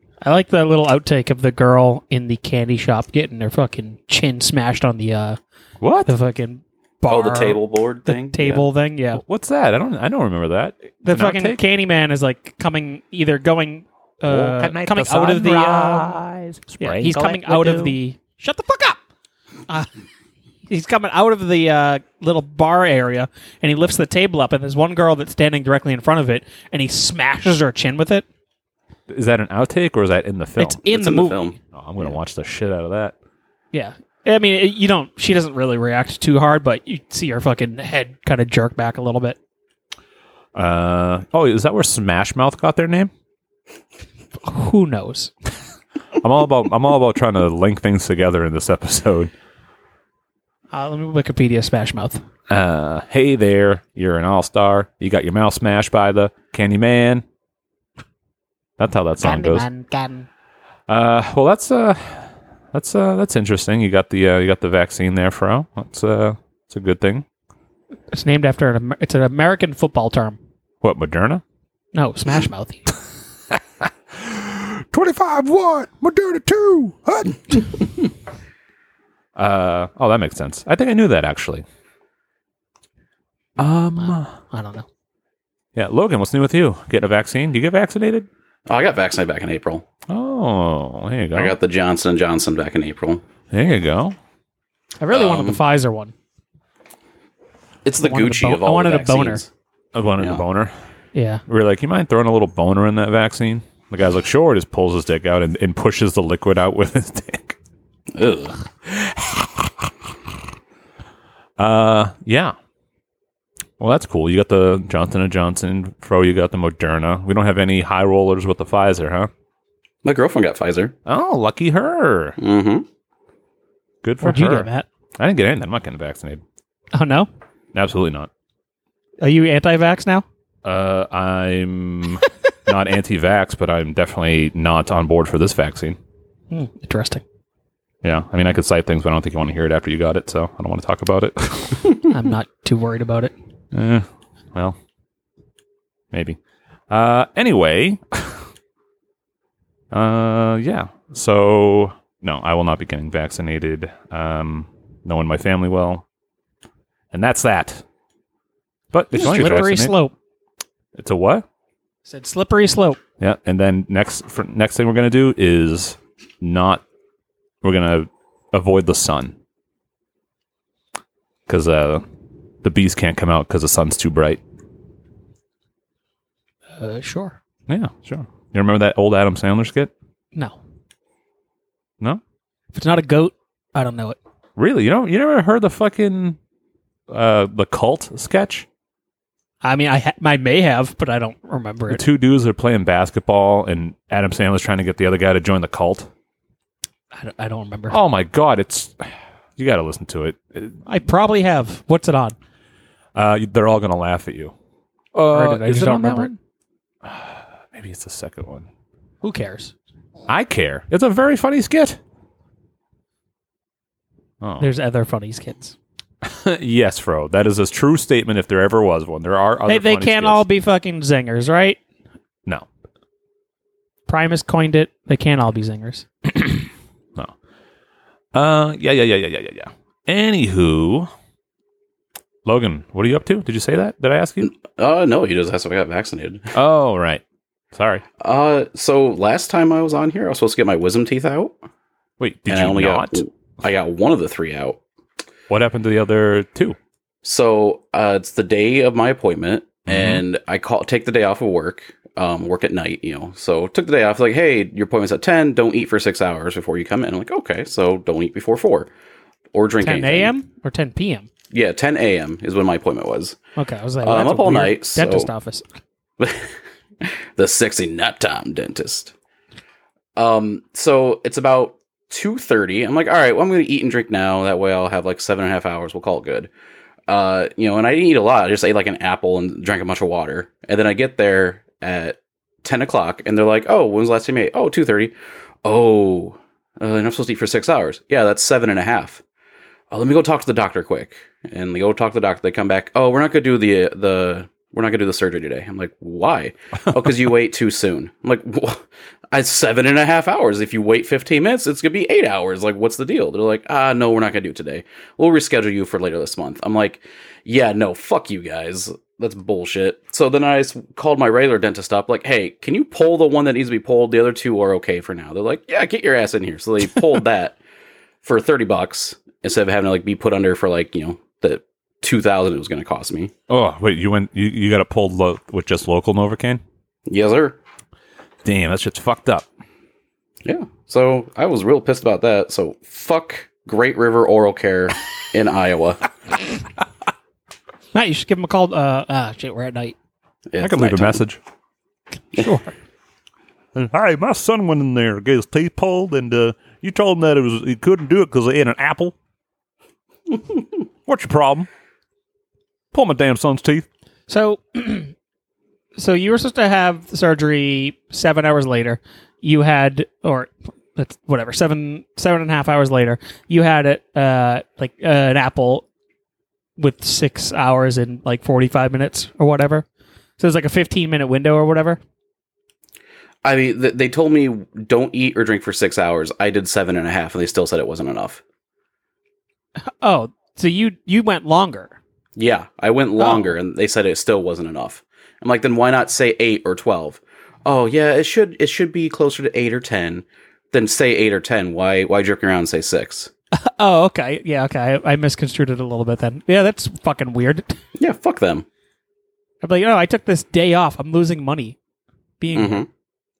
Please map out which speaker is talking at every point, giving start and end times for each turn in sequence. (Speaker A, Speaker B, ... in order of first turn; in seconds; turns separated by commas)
Speaker A: 0.2-5.4, Speaker B: 5.8-6.1, Speaker A: 6.0-9.2, Speaker C: 7.1-8.7, Speaker B: 9.1-11.6, Speaker A: 11.0-16.2, Speaker B: 14.2-18.0, Speaker A: 16.8-19.0, Speaker A: 20.7-28.2, Speaker B: 29.1-30.8, Speaker A: 30.6-31.4, Speaker C: 30.9-31.6, Speaker B: 31.7-33.1, Speaker A: 33.7-39.4, Speaker B: 40.5-43.1, Speaker A: 44.4-45.3, Speaker B: 46.2-49.3, Speaker A: 50.7-52.2, Speaker B: 52.5-57.2, Speaker B: 58.8-59.7, Speaker A: 59.2-60.3, Speaker B: 60.9-67.2, Speaker A: 68.1-70.4, Speaker B: 70.8-71.4, Speaker A: 71.9-72.9, Speaker B: 73.5-77.8, Speaker B: 79.3-81.6, Speaker B: 83.6-84.3, Speaker A: 84.5-84.8, Speaker B: 85.7-88.3, Speaker C: 88.7-89.8, Speaker B: 90.1-91.5, Speaker C: 91.3-93.2, Speaker B: 93.5-94.2, Speaker A: 95.0-96.1, Speaker C: 95.1-95.6, Speaker C: 97.8-99.5, Speaker A: 98.0-99.4, Speaker B: 99.9-100.7, Speaker A: 101.1-101.4, Speaker B: 101.5-107.6, Speaker C: 108.1-108.6, Speaker B: 108.8-109.9, Speaker B: 111.6-112.5, Speaker B: 113.8-119.3, Speaker C: 120.0-120.9, Speaker B: 121.0-122.4, Speaker C: 122.4-122.8, Speaker B: 124.0-126.4, Speaker A: 124.2-124.8, Speaker A: 126.9-127.3, Speaker B: 127.7-128.3, Speaker A: 129.2-130.2, Speaker B: 130.6-136.0, Speaker A: 136.5-137.2, Speaker B: 138.0-141.9, Speaker A: 142.1-143.3, Speaker B: 143.7-144.8, Speaker B: 146.1-146.4, Speaker B: 146.9-148.4, Speaker B: 149.9-156.0, Speaker B: 157.1-157.8, Speaker B: 158.9-160.0, Speaker A: 159.1-160.1, Speaker B: 160.9-161.4, Speaker A: 162.1-163.0, Speaker B: 163.2-166.8, Speaker B: 167.6-169.3, Speaker B: 171.5-172.0, Speaker B: 172.6-174.4, Speaker A: 176.8-177.3, Speaker B: 177.7-179.9, Speaker A: 182.7-184.2, Speaker B: 184.6-186.4, Speaker B: 187.1-188.7, Speaker A: 189.6-192.0, Speaker B: 191.9-196.1, Speaker A: 197.1-198.0, Speaker B: 197.9-200.8, Speaker A: 200.8-202.3, Speaker B: 203.1-204.5, Speaker B: 205.1-206.4, Speaker A: 205.3-206.3, Speaker B: 207.0-208.7, Speaker A: 209.2-209.7, Speaker B: 210.3-212.0, Speaker B: 214.4-214.7, Speaker A: 214.6-215.7, Speaker B: 216.2-220.4, Speaker A: 219.7-221.8, Speaker A: 224.1-226.1, Speaker B: 228.3-231.1, Speaker B: 232.4-234.5, Speaker C: 234.4-236.5, Speaker B: 236.5-237.2, Speaker B: 237.7-238.0, Speaker C: 238.2-241.6, Speaker B: 242.2-243.2, Speaker C: 242.5-244.8, Speaker B: 245.5-246.8, Speaker C: 247.2-258.9, Speaker B: 249.9-250.2, Speaker C: 259.5-260.3, Speaker A: 259.8-261.3, Speaker C: 261.5-263.4, Speaker A: 263.6-265.6, Speaker C: 264.0-265.3, Speaker C: 266.2-266.5, Speaker C: 267.0-269.1, Speaker C: 270.1-276.5, Speaker C: 277.1-289.2, Speaker C: 289.9-317.6, Speaker C: 318.2-323.3, Speaker B: 323.5-326.6, Speaker C: 327.1-327.6, Speaker B: 328.4-329.5, Speaker C: 330.4-336.0, Speaker A: 337.9-339.9, Speaker C: 340.5-341.2, Speaker B: 340.6-341.4, Speaker A: 342.4-342.7, Speaker B: 343.7-349.1, Speaker B: 351.1-351.7, Speaker B: 352.9-353.9, Speaker A: 354.3-355.1, Speaker A: 355.9-365.8, Speaker A: 366.8-369.9, Speaker A: 370.4-372.0, Speaker C: 373.4-378.4, Speaker A: 379.8-382.0, Speaker C: 382.4-393.3, Speaker A: 383.2-383.5, Speaker A: 393.6-397.8, Speaker C: 398.0-398.6, Speaker A: 399.6-401.8, Speaker A: 402.4-402.8, Speaker C: 402.5-402.9